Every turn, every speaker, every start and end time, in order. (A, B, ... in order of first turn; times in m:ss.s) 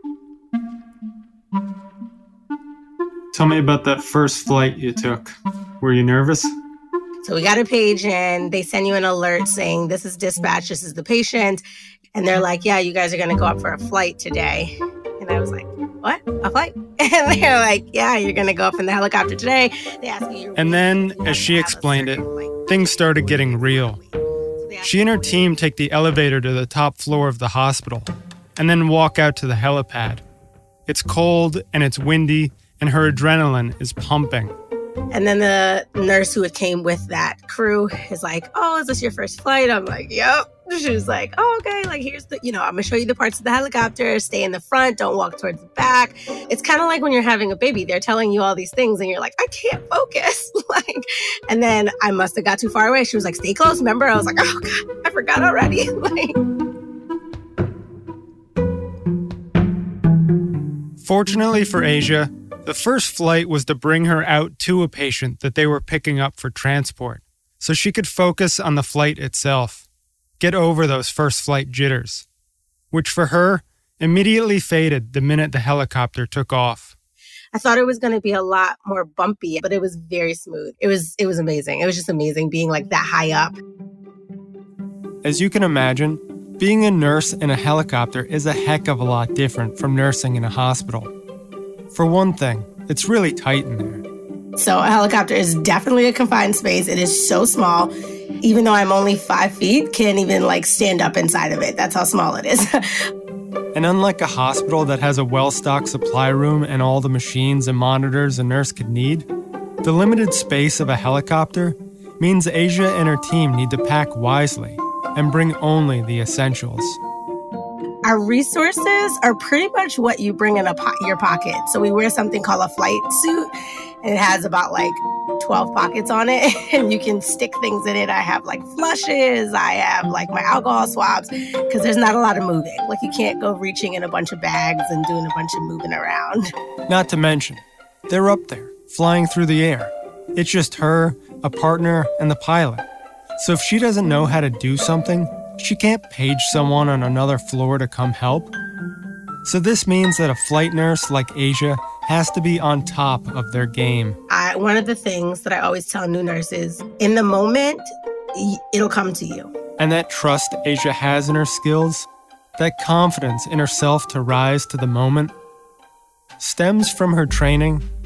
0:03.3-0:06.5 A
0:07.2-0:11.6 B
0:12.1-0:25.1 B
0:20.6-0:24.0 A
0:24.8-0:30.2 A
0:30.9-0:34.5 A
0:35.1-0:56.4 B
1:01.0-1:09.8 A
1:10.4-1:12.2 A
1:12.9-1:16.9 A
1:17.5-1:23.6 B
1:25.2-1:31.1 A
1:31.9-1:34.0 A
1:34.6-1:42.8 B
1:43.7-1:49.3 A
1:49.8-1:57.0 A
1:58.0-2:03.5 B
2:04.0-2:16.5 B
2:16.9-2:22.8 A
2:23.4-2:28.5 A
2:29.4-2:34.2 A
2:34.3-2:39.5 B
2:39.8-2:42.1 A
2:42.6-2:45.3 A
2:46.4-2:47.8 A